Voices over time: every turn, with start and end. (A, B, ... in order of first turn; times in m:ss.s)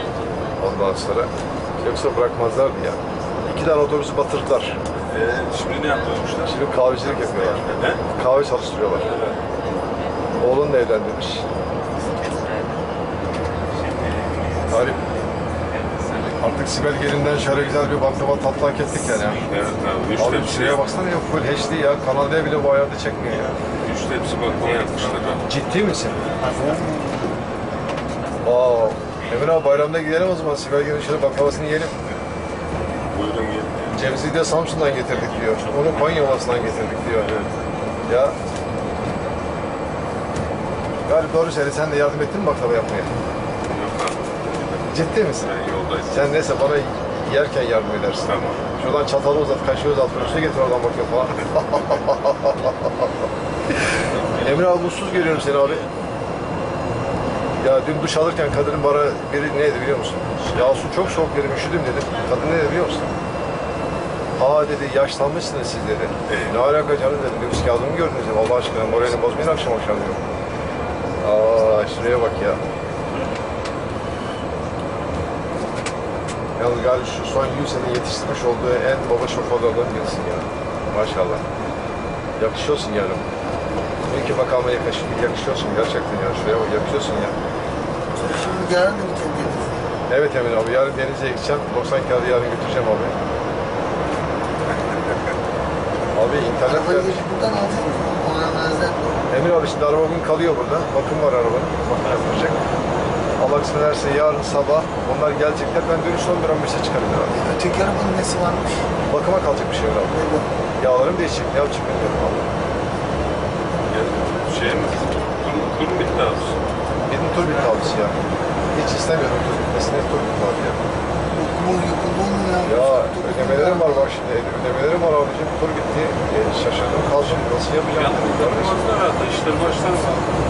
0:00.6-0:04.8 A
0:05.1-0:06.6 B
0:06.4-0:09.2 A
0:07.5-0:08.0 B
0:09.0-0:09.4 B
0:10.4-0:11.4 A
0:14.7-0:15.0 A
0:16.4-0:19.4 A
0:19.4-0:20.8 B
0:20.2-0:23.5 A
0:23.8-0:25.5 B
0:25.4-0:26.2 A
0:26.5-0:27.2 C
0:28.4-0:31.9 A
0:33.1-0:33.9 B
0:33.9-0:37.4 A
0:37.2-0:37.6 B
0:38.1-0:38.4 A
0:41.0-0:43.1 A
0:43.7-0:46.6 B
0:44.9-0:45.5 A
0:46.1-0:52.7 A
0:48.2-0:48.6 B
0:54.3-0:55.8 A
0:57.6-1:03.1 A
1:04.4-1:10.2 A
1:11.2-1:12.6 A
1:16.6-1:21.4 A
1:22.4-1:23.2 A
1:24.1-1:27.4 A
1:28.2-1:29.8 C
1:30.1-1:33.1 A
1:36.1-1:37.2 A
1:36.6-1:39.0 C
1:39.3-1:42.6 A
1:43.4-1:47.5 A
1:47.4-1:48.8 C
1:49.1-1:50.2 A
1:50.1-1:50.4 C
1:50.8-1:52.5 A
1:53.9-1:56.6 B
1:57.1-1:58.2 A
1:58.7-2:00.8 A
2:01.3-2:04.0 C
2:02.6-2:08.8 A
2:07.0-2:10.2 B